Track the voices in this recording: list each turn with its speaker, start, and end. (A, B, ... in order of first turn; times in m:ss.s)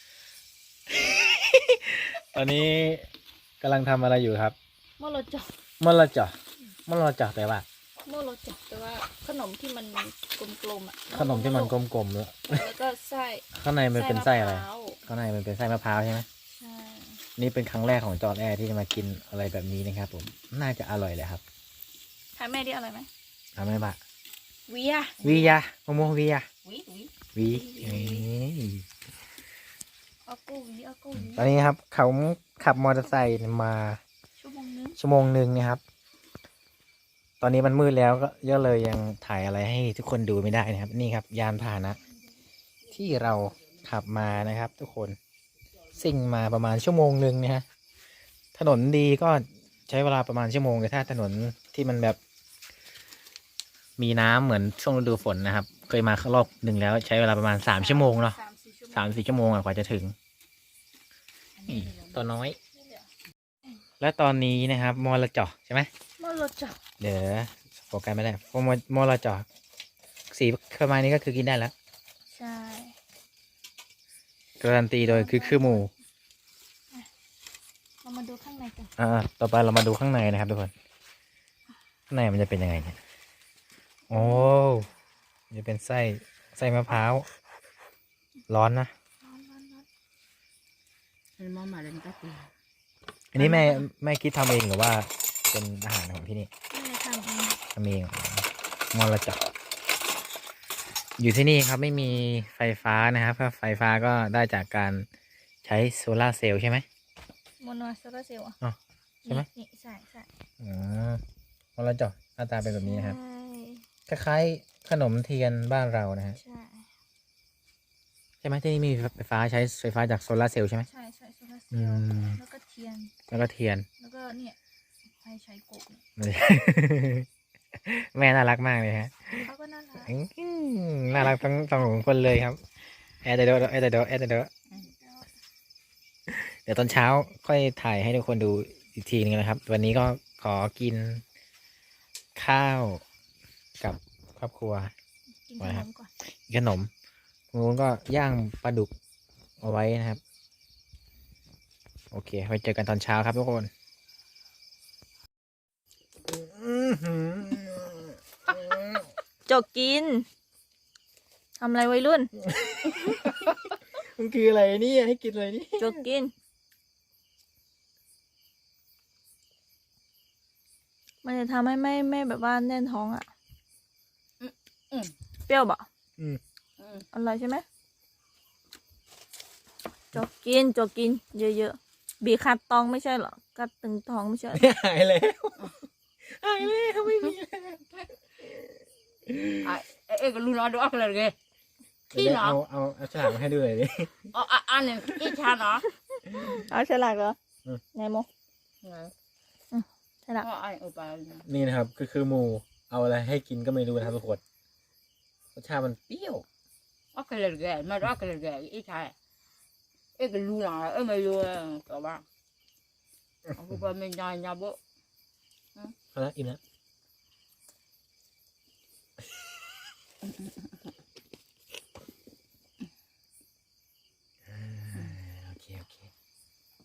0:00.9-0:03.1 A
0:03.6-0:04.6 A
0:05.0-0:05.5 B
0:05.8-0:06.4 A
0:06.9-0:07.6 A
0:08.1-0:11.8 B
0:11.1-0:12.7 A
0:12.5-0:15.0 B
0:13.5-0:16.3 A
0:16.5-0:17.2 B
0:17.4-0:21.4 A
0:22.4-0:23.1 B
0:23.6-0:24.0 A
0:24.7-0:25.5 B
0:25.2-0:26.5 A
0:26.6-0:27.1 C
0:27.3-0:28.8 A
0:27.4-0:28.3 B
0:30.3-0:31.5 B
0:31.2-0:34.0 A
0:34.4-0:35.0 B
0:35.0-0:35.8 A
0:37.4-0:42.0 A
0:42.9-0:45.2 A
0:45.9-0:47.6 A
0:48.6-0:52.2 A
0:54.0-0:58.4 A
0:57.8-0:59.0 B
0:58.9-1:00.2 A
1:01.6-1:02.2 C
1:01.7-1:02.6 A
1:04.0-1:05.9 A
1:06.2-1:06.8 B
1:07.0-1:09.5 A
1:10.3-1:11.7 A
1:12.3-1:13.0 B
1:14.6-1:15.9 A
1:15.0-1:15.9 B
1:18.0-1:18.9 B
1:19.0-1:20.7 A
1:22.1-1:23.0 A
1:24.1-1:24.9 A
1:24.1-1:24.6 B
1:25.5-1:27.3 A
1:28.5-1:28.9 A
1:29.2-1:29.9 B
1:31.4-1:32.5 C
1:33.3-1:36.5 A
1:33.4-1:33.8 B
1:36.7-1:37.6 B
1:37.7-1:39.4 A
1:41.2-1:45.1 A
1:45.6-1:46.9 A
1:47.6-1:48.6 B
1:48.6-1:49.5 A
1:49.2-1:50.3 B
1:50.6-1:51.2 A
1:51.8-1:53.2 A
1:52.6-1:53.8 B
1:54.1-1:56.4 A
1:56.4-1:56.9 B
1:58.4-2:00.9 A
2:00.9-2:03.1 B
2:01.7-2:02.4 A
2:03.3-2:03.9 A
2:04.0-2:06.0 B
2:06.2-2:09.5 A
2:09.3-2:10.1 B
2:10.0-2:12.6 A
2:13.2-2:14.5 A
2:14.7-2:15.3 B
2:16.3-2:21.2 A
2:22.4-2:23.0 A
2:23.8-2:24.9 A
2:25.5-2:26.1 B
2:25.6-2:26.9 A
2:27.5-2:28.9 A
2:29.6-2:30.2 A
2:32.1-2:33.7 A
2:36.3-2:39.1 A
2:39.5-2:40.3 B
2:41.6-2:42.3 B
2:42.5-2:46.0 A
2:45.8-2:46.3 B
2:51.2-2:53.3 B
2:54.4-2:55.1 C
2:55.5-2:55.9 B
2:56.8-2:57.1 C
2:57.1-2:57.6 B
3:00.1-3:04.6 B
3:04.5-3:05.7 A
3:06.2-3:08.1 A
3:09.3-3:09.7 A
3:09.6-3:11.4 C
3:12.1-3:14.3 A
3:12.1-3:12.6 C
3:14.3-3:15.8 C
3:16.3-3:17.4 B
3:17.9-3:18.3 B
3:18.8-3:19.1 C
3:19.7-3:20.5 B
3:20.4-3:21.5 C
3:21.5-3:24.4 A
3:25.6-3:26.4 A
3:27.1-3:29.1 C
3:30.2-3:32.2 C
3:33.6-3:34.8 C
3:36.1-3:36.6 A
3:40.2-3:40.9 C
3:44.5-3:46.1 A
3:44.9-3:45.2 C